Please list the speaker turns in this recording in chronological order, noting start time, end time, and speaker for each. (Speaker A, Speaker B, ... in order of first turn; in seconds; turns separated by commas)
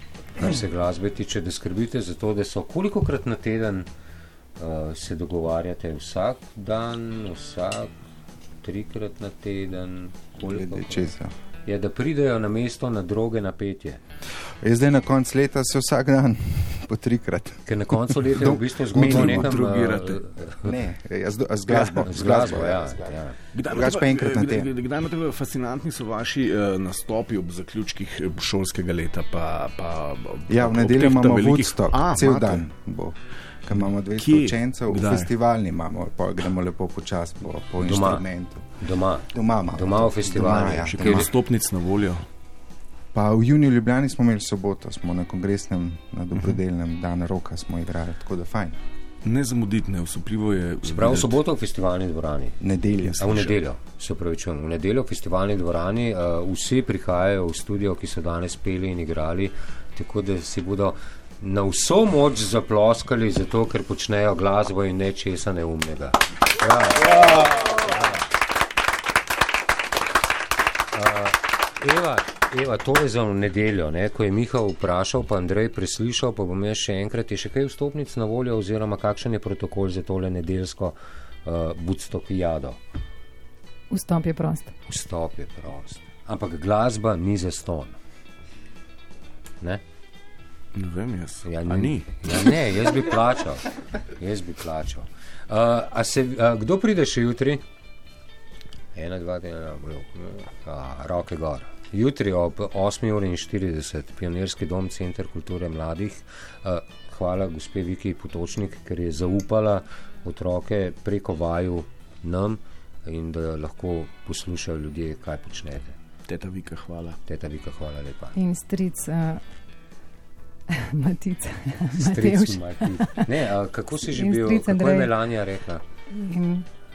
Speaker A: 0.4-3.9, Speaker A: 4.6-7.9, Speaker A: 8.6-11.1, Speaker B: 10.4-11.3, Speaker A: 11.6-14.0, Speaker B: 14.5-19.6, Speaker A: 17.7-20.8, Speaker C: 18.9-20.2, Speaker B: 20.6-24.7, Speaker C: 21.7-22.0, Speaker A: 22.0-23.4, Speaker C: 23.5-32.6, Speaker B: 30.5-33.1, Speaker B: 33.7-38.6, Speaker C: 33.7-35.3, Speaker A: 37.8-38.2, Speaker A: 38.8-41.3, Speaker B: 39.3-41.3, Speaker C: 40.3-42.2, Speaker B: 43.1-48.8, Speaker C: 49.2-51.4, Speaker A: 50.8-52.6, Speaker B: 52.6-53.4, Speaker C: 53.1-53.5, Speaker A: 53.2-67.5, Speaker A: 70.9-82.8, Speaker D: 83.9-84.7, Speaker A: 84.9-88.0, Speaker C: 90.7-92.5, Speaker A: 91.4-97.6, Speaker A: 98.9-116.0, Speaker C: 116.3-117.2, Speaker A: 117.2-118.3, Speaker D: 118.3-119.4, Speaker D: 120.7-123.3, Speaker A: 122.0-125.8, Speaker D: 124.0-125.1, Speaker D: 126.1-126.7